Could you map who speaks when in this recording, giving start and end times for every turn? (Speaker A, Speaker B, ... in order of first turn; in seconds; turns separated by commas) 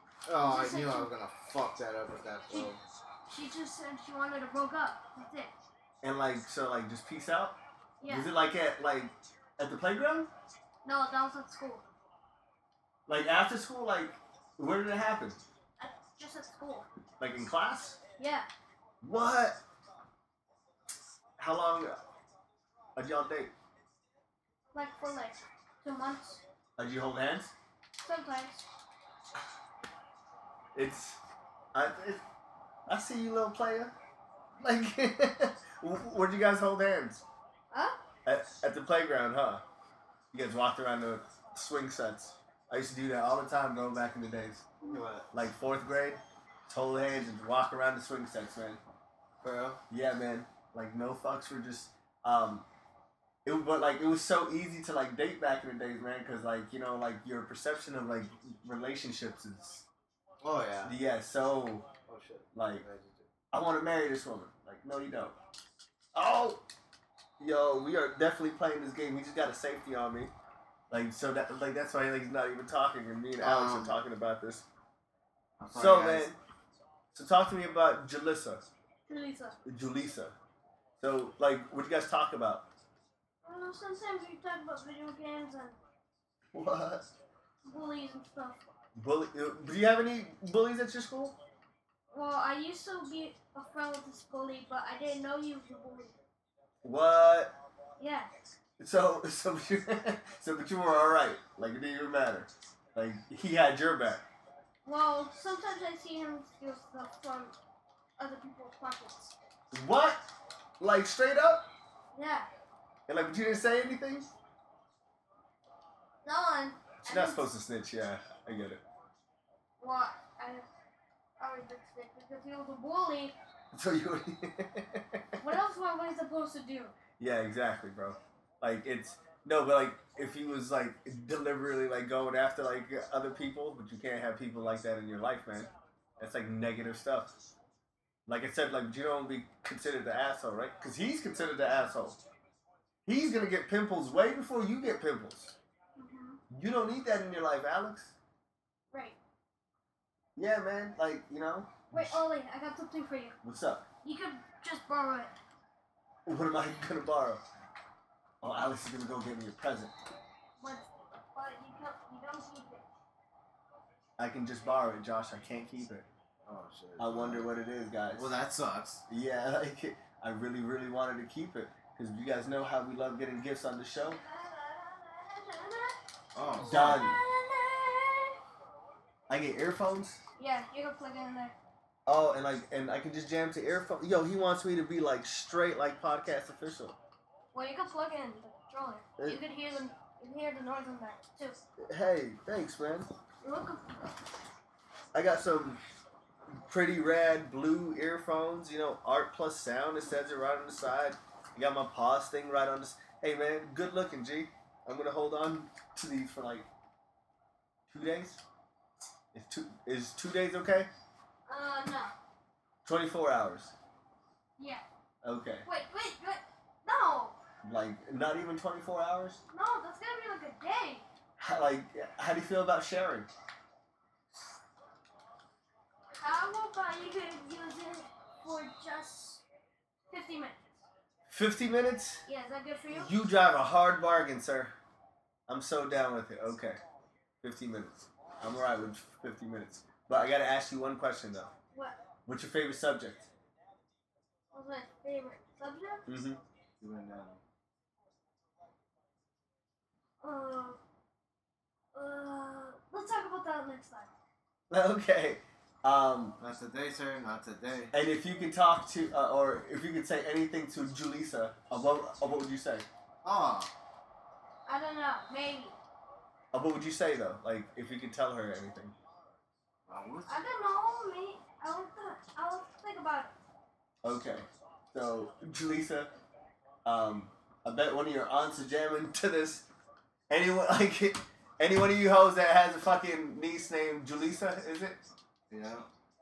Speaker A: 0.2-2.8, Speaker B: 0.4-1.1, Speaker B: 3.3-5.5, Speaker C: 6.0-10.3, Speaker B: 8.0-8.3, Speaker B: 10.8-11.8, Speaker C: 13.1-15.4, Speaker B: 15.8-16.9, Speaker C: 17.2-18.0, Speaker B: 18.2-18.5, Speaker C: 19.0-19.6, Speaker C: 21.4-21.9, Speaker C: 22.9-23.5, Speaker B: 24.7-26.4, Speaker C: 26.8-27.5, Speaker B: 28.0-28.6, Speaker C: 30.7-31.2, Speaker C: 31.7-32.2, Speaker C: 32.9-33.9, Speaker C: 34.6-37.2, Speaker B: 37.7-38.0, Speaker C: 38.2-39.6, Speaker C: 40.3-44.6, Speaker A: 44.8-45.3, Speaker C: 45.3-48.8, Speaker A: 49.4-49.8, Speaker C: 49.9-52.6, Speaker C: 53.4-59.9, Speaker A: 60.4-61.0, Speaker C: 60.8-61.9, Speaker A: 62.1-63.3, Speaker C: 62.5-62.8, Speaker C: 63.5-65.3, Speaker C: 66.1-66.6, Speaker C: 67.4-70.3, Speaker C: 70.9-74.6, Speaker A: 73.4-74.0, Speaker A: 75.6-76.3, Speaker C: 75.7-76.4, Speaker C: 77.1-78.7, Speaker B: 79.1-79.6, Speaker C: 79.6-80.3, Speaker C: 81.0-82.7, Speaker B: 83.4-85.8, Speaker C: 86.5-87.1, Speaker B: 87.6-88.6, Speaker C: 89.0-91.4, Speaker B: 92.1-96.1, Speaker C: 96.8-97.5, Speaker B: 98.0-98.3, Speaker C: 98.8-104.2, Speaker B: 104.8-107.5, Speaker B: 108.2-109.3, Speaker C: 109.7-110.2, Speaker C: 110.8-111.7, Speaker B: 112.1-112.5, Speaker C: 113.1-114.3, Speaker B: 116.2-117.5, Speaker C: 117.0-118.8, Speaker B: 119.8-120.7, Speaker B: 121.4-123.3, Speaker C: 123.7-125.4, Speaker B: 125.4-126.9, Speaker C: 127.2-137.3, Speaker C: 138.2-142.2, Speaker C: 143.1-145.5, Speaker B: 145.9-146.4, Speaker C: 146.5-148.1, Speaker B: 148.9-149.2, Speaker C: 150.3-152.2, Speaker B: 151.9-153.4, Speaker C: 153.4-153.8, Speaker B: 154.0-155.3, Speaker C: 156.2-157.4, Speaker C: 158.4-159.9, Speaker B: 160.6-162.8, Speaker C: 164.2-166.1, Speaker A: 166.4-167.5, Speaker C: 167.0-168.3, Speaker A: 168.1-169.0, Speaker C: 169.1-174.2, Speaker B: 174.0-178.4, Speaker A: 176.3-177.0, Speaker C: 176.6-177.2, Speaker C: 179.3-180.2, Speaker B: 180.4-181.6, Speaker C: 182.1-187.0, Speaker B: 187.5-191.6, Speaker C: 191.8-193.1, Speaker B: 193.4-194.2, Speaker C: 195.1-195.8, Speaker C: 196.5-206.7, Speaker C: 207.9-208.4, Speaker C: 209.3-210.9, Speaker B: 211.5-212.1, Speaker C: 212.8-213.7, Speaker B: 214.6-214.8, Speaker C: 215.2-215.7, Speaker B: 215.6-217.3, Speaker C: 217.6-219.4, Speaker B: 219.5-221.0, Speaker C: 221.4-223.3, Speaker B: 226.2-229.4, Speaker B: 230.1-230.6, Speaker C: 231.3-232.2, Speaker B: 232.2-233.1, Speaker C: 232.9-234.7, Speaker C: 235.5-236.8, Speaker C: 237.4-241.5, Speaker C: 242.2-243.3, Speaker B: 244.5-246.0, Speaker C: 246.1-246.4, Speaker A: 246.8-247.4, Speaker B: 250.2-250.8, Speaker B: 251.9-254.1, Speaker C: 254.7-256.4, Speaker A: 256.4-257.9, Speaker C: 257.9-262.9, Speaker A: 263.2-263.7, Speaker B: 264.6-265.8, Speaker C: 266.5-268.9, Speaker A: 269.9-270.4, Speaker B: 270.3-273.3, Speaker C: 274.0-276.1, Speaker C: 276.8-279.7, Speaker C: 280.3-285.0, Speaker A: 285.5-285.9